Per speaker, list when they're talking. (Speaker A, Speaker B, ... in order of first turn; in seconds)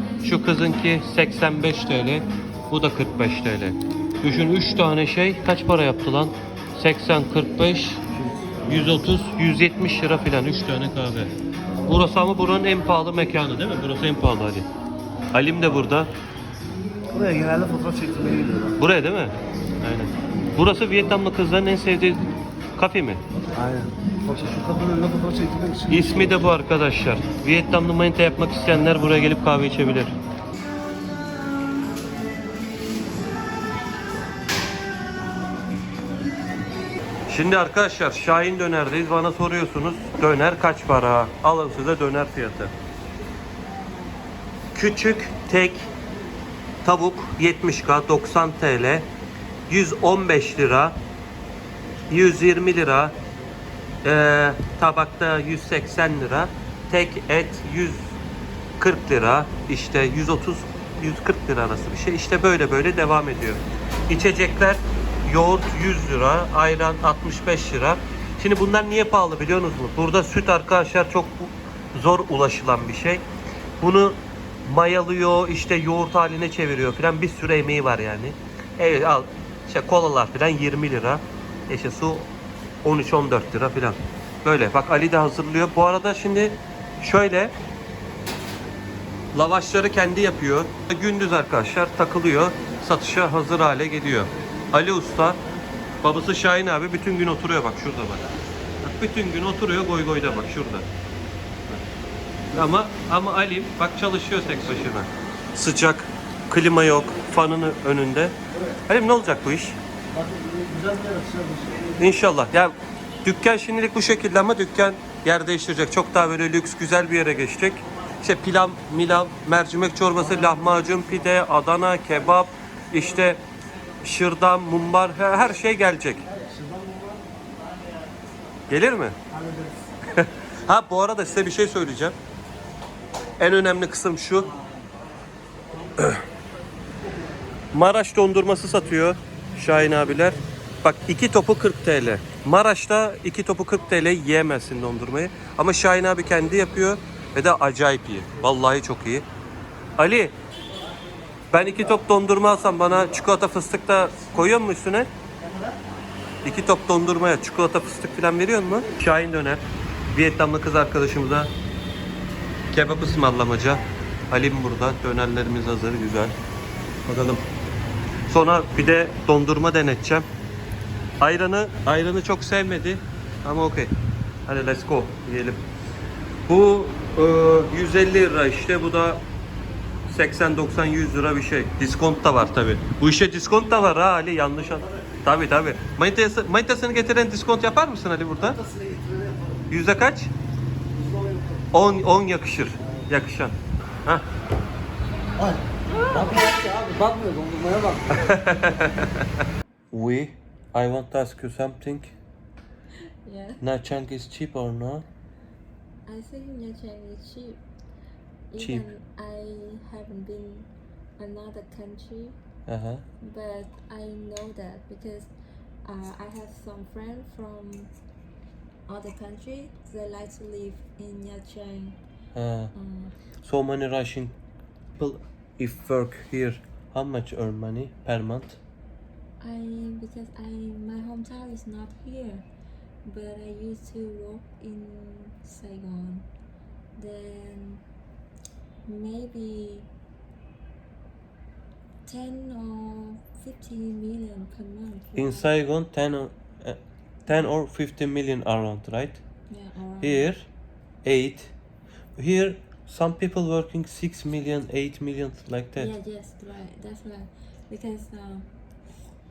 Speaker A: 0.2-8.0, 8.6-11.3, 11.9-14.7, 15.3-16.1, 18.8-22.2, 22.8-23.2, 25.9-30.2, 37.3-42.7, 44.7-45.9, 46.8-49.1, 49.7-51.0, 52.1-53.2, 54.0-58.2, 58.8-73.2, 73.8-82.3, 82.8-87.5, 89.3-95.4, 96.0-98.3, 98.8-100.9, 102.5-109.8, 112.0-123.4, 124.0-126.3, 128.7-129.2, 130.1-132.2, 133.4-134.5, 136.0-136.2, 137.7-149.3, 150.0-150.4, 151.5-155.1, 156.4-161.5, 162.7-166.4, 167.1-167.4, 168.3-170.3, 171.2-173.9, 174.5-175.6, 176.5-179.2, 180.1-188.6, 189.7-190.3, 191.7-194.3, 198.1-199.3, 199.9-202.2, 203.6-205.1, 208.6-208.9, 212.7-213.1, 222.3-222.7, 223.4-224.4, 225.0-228.6, 245.2-249.2, 250.0-250.5, 251.0-251.6, 252.2-255.9
Speaker B: 17.1-18.7, 23.6-25.9, 110.2-111.9, 126.5-127.2, 188.8-189.5, 191.1-191.4, 196.2-198.1
Speaker C: 203.2-203.7, 206.1-207.6, 208.5-212.4, 213.2-215.3, 215.8-217.9, 218.9-222.0, 222.7-223.1, 229.4-232.5, 233.0-236.3, 237.0-237.8, 238.9-239.9, 242.1-245.5, 249.5-250.3, 255.8-258.5